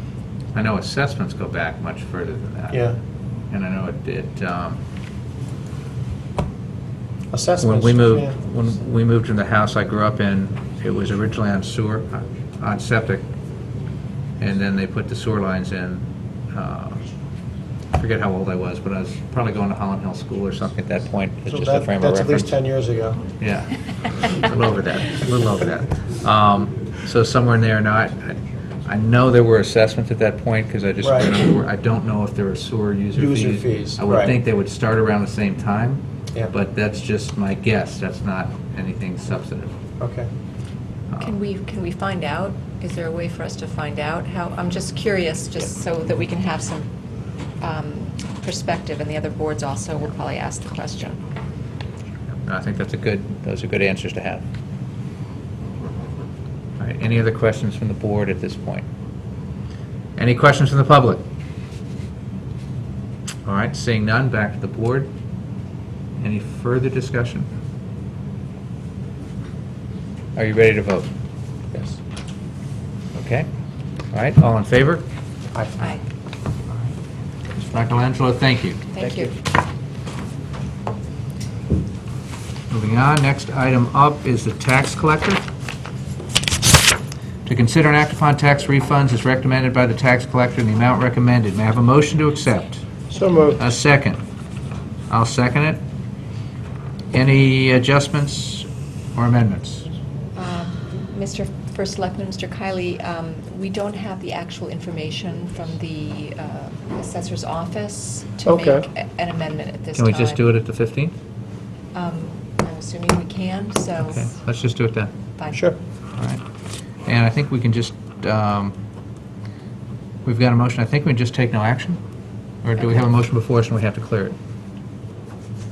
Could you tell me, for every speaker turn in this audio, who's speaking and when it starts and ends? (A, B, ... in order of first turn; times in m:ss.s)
0:00.5-0:02.8 A
0:02.7-0:03.0 B
0:03.5-0:04.8 A
0:07.3-0:08.4 B
0:07.6-0:13.2 A
0:14.4-0:17.0 A
0:17.9-0:22.6 A
0:21.5-0:23.2 B
0:23.4-0:39.8 A
0:31.0-0:31.3 B
0:33.1-0:34.4 B
0:40.0-0:40.3 B
0:41.2-0:46.9 C
0:47.6-0:51.2 C
0:52.4-0:54.4 A
0:56.8-0:58.9 A
1:00.2-1:01.2 A
1:03.4-1:05.1 A
1:06.2-1:07.5 A
1:10.4-1:11.1 A
1:11.7-1:12.0 B
1:13.1-1:13.5 A
1:14.1-1:15.0 A
1:15.5-1:15.8 B
1:17.5-1:18.9 A
1:18.9-1:19.3 C
1:19.0-1:19.3 B
1:22.7-1:25.4 A
1:27.4-1:32.8 A
1:33.1-1:33.6 B
1:33.6-1:34.2 A
1:35.1-1:35.8 A
1:37.1-1:39.8 A
1:40.3-1:50.4 C
1:48.4-1:48.9 B
1:49.9-1:51.2 A
1:51.9-1:54.3 C
1:54.0-1:55.1 A
1:55.4-1:55.7 C
1:55.5-1:55.8 B
1:56.2-1:56.4 A
1:57.0-1:58.7 A
2:00.2-2:02.0 A
2:02.6-2:04.4 A